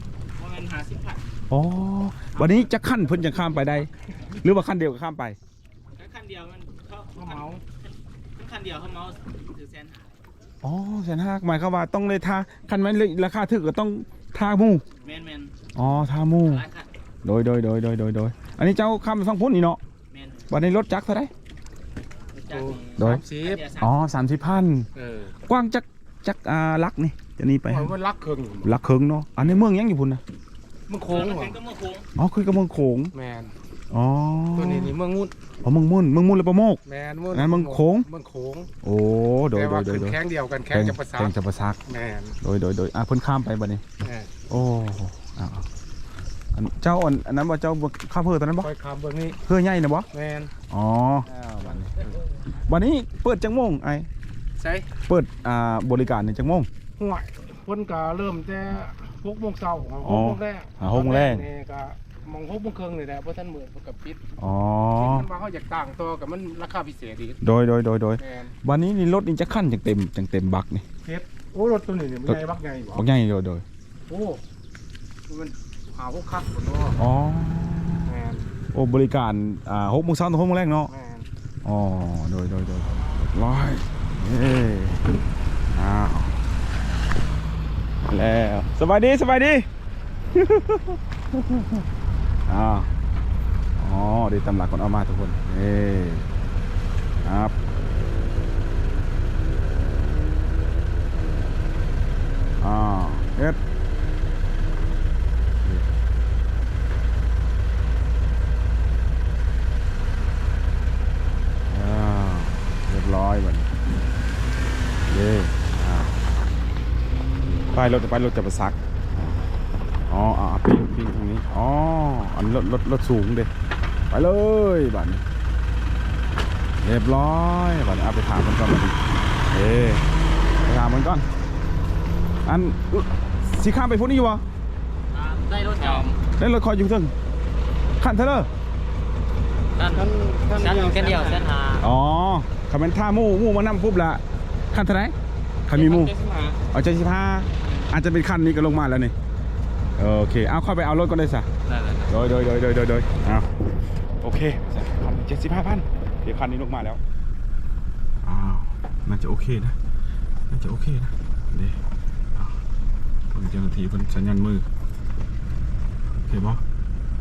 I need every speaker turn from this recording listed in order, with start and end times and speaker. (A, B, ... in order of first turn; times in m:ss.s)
0:00.4-0:01.2 A
0:01.5-0:05.4 B
0:05.9-0:07.5 A
0:07.1-0:07.6 C
0:08.4-0:10.2 A
0:10.6-0:14.8 B
0:15.0-0:15.5 A
0:15.8-0:16.7 B
0:16.5-0:16.9 A
0:17.2-0:19.8 B
0:20.1-0:20.5 A
0:20.5-0:21.3 B
0:22.3-0:24.1 A
0:22.5-0:23.7 C
0:23.0-0:28.0 B
0:25.0-0:25.3 C
0:27.7-0:28.7 C
0:28.6-0:30.2 B
0:30.9-0:31.6 C
0:31.1-0:32.0 A
0:32.2-0:33.1 B
0:33.1-0:33.6 C
0:33.9-0:35.0 B
0:34.6-0:35.3 C
0:35.6-0:38.1 B
0:36.9-0:38.7 C
0:38.8-0:40.2 B
0:39.6-0:41.3 C
0:40.7-0:41.8 B
0:41.9-0:42.4 C
0:42.4-0:43.8 B
0:44.0-0:44.3 C
0:44.5-0:45.7 B
0:46.5-0:48.7 B
0:48.6-0:49.4 C
0:49.4-0:50.1 B
0:50.1-0:50.5 C
0:50.7-0:52.0 B
0:51.6-0:52.0 C
0:52.5-0:54.1 B
0:54.6-0:54.9 C
0:55.0-0:56.7 B
0:57.0-1:04.2 C
1:00.0-1:01.5 B
1:04.4-1:05.3 B
1:05.0-1:07.4 C
1:07.4-1:10.9 B
1:08.2-1:08.5 C
1:11.0-1:13.0 C
1:12.2-1:13.6 B
1:14.1-1:14.4 C
1:15.3-1:17.0 C
1:17.0-1:18.2 B
1:18.1-1:18.5 C
1:18.7-1:20.9 B
1:20.9-1:21.3 C
1:21.6-1:25.1 B
1:25.7-1:26.4 B
1:28.1-1:29.7 B
1:30.3-1:31.8 B
1:32.5-1:32.9 B
1:33.8-1:36.2 B
1:37.2-1:37.5 B
1:42.6-1:43.6 B
1:45.6-1:45.9 B
1:51.7-1:53.7 B
1:55.1-1:56.2 B
1:57.5-1:59.4 B
2:00.1-2:03.5 B
2:04.1-2:05.2 B
2:06.8-2:09.0 B
2:09.5-2:10.0 B
2:10.6-2:11.3 B
2:12.4-2:14.4 B
2:15.1-2:16.2 A
2:15.8-2:16.1 C
2:16.4-2:17.1 B
2:18.0-2:18.5 B
2:19.8-2:21.8 A
2:19.9-2:21.5 C
2:21.8-2:25.2 B
2:25.7-2:26.2 B
2:25.8-2:26.6 C
2:26.7-2:29.1 B
2:30.0-2:31.5 B
2:32.1-2:33.5 B
2:34.2-2:37.0 B
2:38.2-2:39.8 B
2:40.5-2:41.8 B
2:43.3-2:44.7 B
2:46.2-2:46.6 B